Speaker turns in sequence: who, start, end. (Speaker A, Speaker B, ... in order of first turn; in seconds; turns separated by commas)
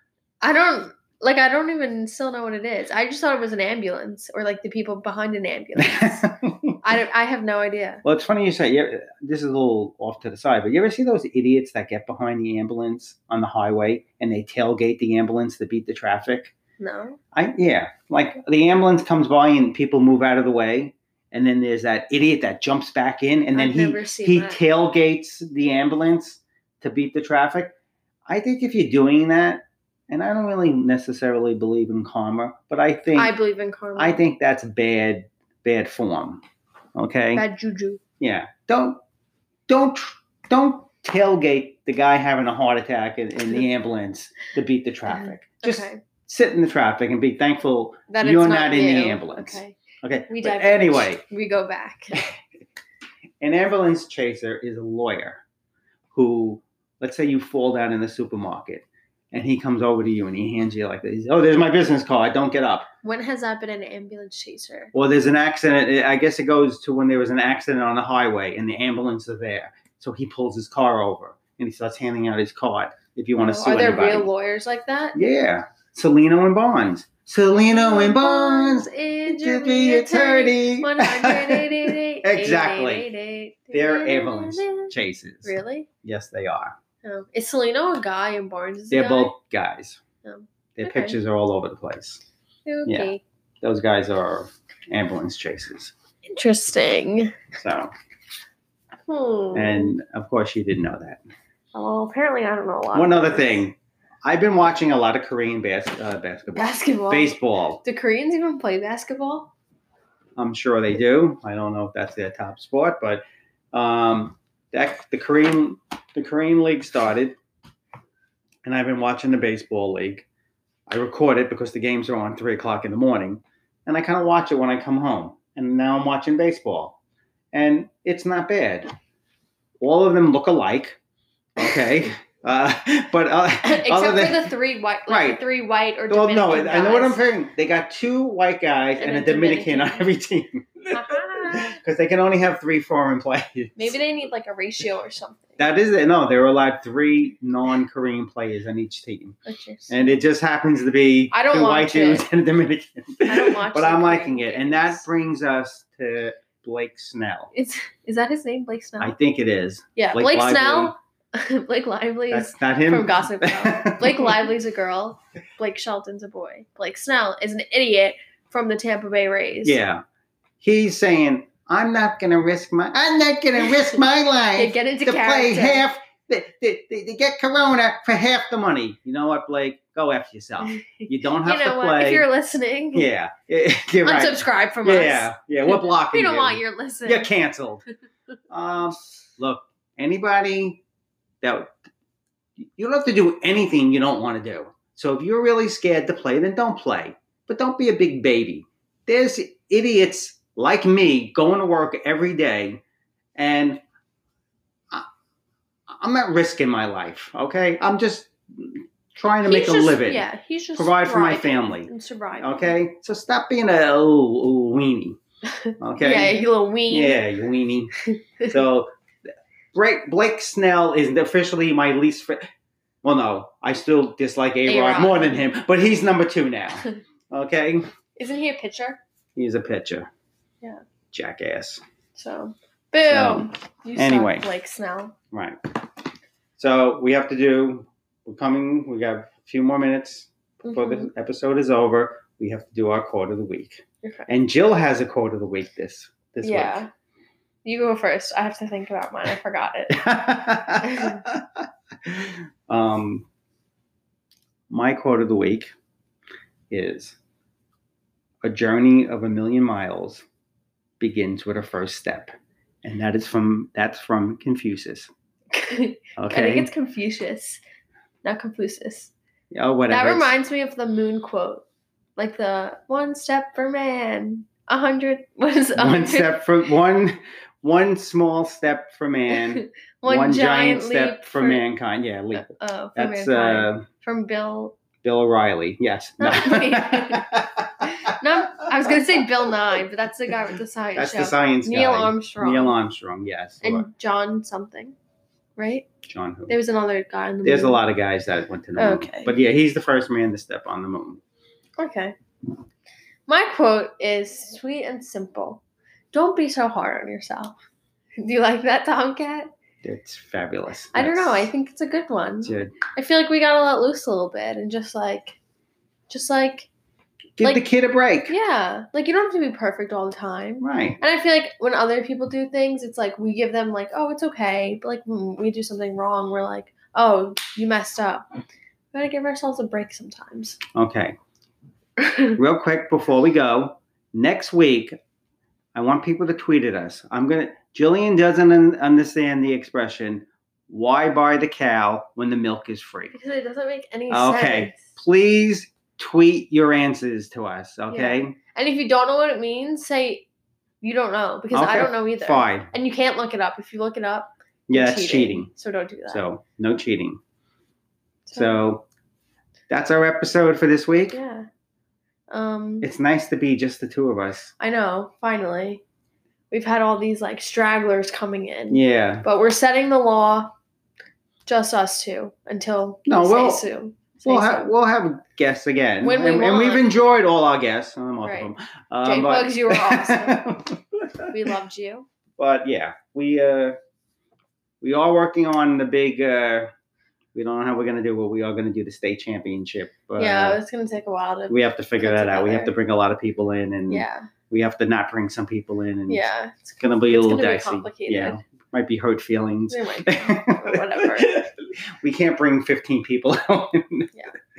Speaker A: 0.4-6.3, Speaker B: 5.8-6.8, Speaker A: 6.8-8.0, Speaker B: 8.0-16.5, Speaker A: 16.8-17.2, Speaker B: 17.3-27.7, Speaker A: 23.5-24.6, Speaker B: 28.3-33.3, Speaker A: 33.1-34.2, Speaker B: 34.0-36.4, Speaker B: 36.9-37.4, Speaker A: 37.3-38.0, Speaker B: 38.2-39.0, Speaker B: 39.7-51.2, Speaker A: 45.1-46.0, Speaker A: 48.1-49.7, Speaker A: 50.3-52.2, Speaker B: 53.4-55.4, Speaker B: 56.1-62.9, Speaker A: 63.0-64.9, Speaker B: 64.9-74.3, Speaker A: 73.4-75.2, Speaker B: 75.1-83.1, Speaker A: 77.7-84.9, Speaker B: 83.7-86.7, Speaker A: 85.4-85.9, Speaker A: 87.0-89.3, Speaker B: 88.9-90.0, Speaker A: 90.2-91.2, Speaker B: 90.8-92.2, Speaker A: 92.7-93.2, Speaker B: 92.8-93.1, Speaker B: 93.6-95.9, Speaker A: 96.2-97.4, Speaker B: 97.6-97.9, Speaker A: 99.1-100.0, Speaker B: 99.5-101.2, Speaker A: 101.7-103.6, Speaker B: 102.9-107.8, Speaker A: 106.5-109.5, Speaker B: 110.4-117.4, Speaker B: 118.6-120.2, Speaker B: 120.9-127.0, Speaker B: 127.5-128.9, Speaker B: 129.8-131.0, Speaker B: 131.6-134.5, Speaker A: 133.6-137.2, Speaker B: 135.1-135.4, Speaker B: 136.1-143.9, Speaker A: 139.0-140.1, Speaker A: 140.9-141.8, Speaker A: 143.8-145.6, Speaker B: 145.6-149.4, Speaker A: 149.4-150.1, Speaker B: 149.9-157.5, Speaker A: 151.3-152.2, Speaker A: 153.3-155.0, Speaker A: 157.5-159.2, Speaker B: 159.0-160.9, Speaker A: 159.9-169.8, Speaker B: 162.3-164.5, Speaker B: 169.6-170.0, Speaker B: 170.6-182.3, Speaker A: 174.5-175.8, Speaker A: 180.6-183.1, Speaker B: 182.9-187.8, Speaker A: 184.0-187.3, Speaker B: 188.5-190.8, Speaker B: 191.4-191.7, Speaker B: 192.6-202.8, Speaker B: 203.3-203.8, Speaker B: 205.9-210.2, Speaker A: 209.4-212.7, Speaker B: 210.8-215.2, Speaker A: 215.7-217.2, Speaker B: 215.8-217.9, Speaker A: 218.1-218.6, Speaker B: 218.5-218.9, Speaker B: 219.7-222.4, Speaker B: 223.0-227.9, Speaker A: 224.7-225.3, Speaker A: 228.2-229.0, Speaker B: 229.3-230.1, Speaker B: 231.1-231.8, Speaker A: 232.1-235.1, Speaker B: 233.1-234.5, Speaker B: 235.3-235.6, Speaker B: 236.6-246.8, Speaker A: 240.6-241.1, Speaker A: 244.0-244.3, Speaker A: 246.4-246.9, Speaker A: 247.6-250.0, Speaker B: 249.9-253.2, Speaker A: 250.8-251.2, Speaker B: 254.7-255.7, Speaker B: 256.7-257.2, Speaker B: 258.4-260.2, Speaker B: 261.0-262.3, Speaker B: 262.8-265.1, Speaker A: 265.5-267.6, Speaker B: 266.2-266.7, Speaker A: 268.2-269.1, Speaker B: 269.5-270.3, Speaker A: 269.9-271.6, Speaker A: 272.2-276.4, Speaker B: 275.7-283.9, Speaker A: 279.3-281.6, Speaker A: 282.3-284.8, Speaker B: 285.0-289.5, Speaker A: 286.2-287.3, Speaker A: 287.8-292.8, Speaker B: 290.9-293.9, Speaker A: 293.6-294.9, Speaker A: 295.6-295.9, Speaker B: 296.1-296.5, Speaker A: 296.5-297.8, Speaker B: 297.4-301.2, Speaker A: 298.8-299.3, Speaker A: 301.8-302.1, Speaker A: 303.3-305.6, Speaker A: 306.1-307.6, Speaker A: 308.2-309.5, Speaker B: 309.8-311.5, Speaker A: 310.9-315.4, Speaker B: 312.4-312.7, Speaker A: 316.1-316.7, Speaker B: 317.4-318.3, Speaker A: 318.3-328.2, Speaker B: 320.6-321.0, Speaker A: 328.9-330.6, Speaker B: 330.7-331.1, Speaker A: 332.0-332.4, Speaker B: 332.4-335.0, Speaker B: 335.7-343.1, Speaker A: 343.1-344.9, Speaker B: 344.1-348.4, Speaker A: 347.9-350.2, Speaker A: 350.8-356.2, Speaker B: 351.5-352.7, Speaker B: 354.7-355.5, Speaker B: 356.1-357.2, Speaker A: 358.3-358.6, Speaker B: 358.3-358.8, Speaker B: 359.7-361.2, Speaker A: 361.1-361.5, Speaker A: 362.3-362.9, Speaker B: 362.8-364.5, Speaker A: 364.6-365.8, Speaker A: 366.5-370.5, Speaker B: 368.7-369.2, Speaker A: 371.4-374.7, Speaker B: 373.1-373.6, Speaker B: 374.2-381.4, Speaker A: 376.0-376.9, Speaker A: 378.2-378.5, Speaker A: 379.0-380.5, Speaker A: 381.3-382.1, Speaker B: 382.4-383.8, Speaker B: 384.8-386.7, Speaker B: 387.3-390.6, Speaker A: 390.2-392.7, Speaker B: 391.5-396.2, Speaker A: 393.9-394.3, Speaker A: 396.1-398.4, Speaker B: 396.8-404.1, Speaker A: 399.7-401.4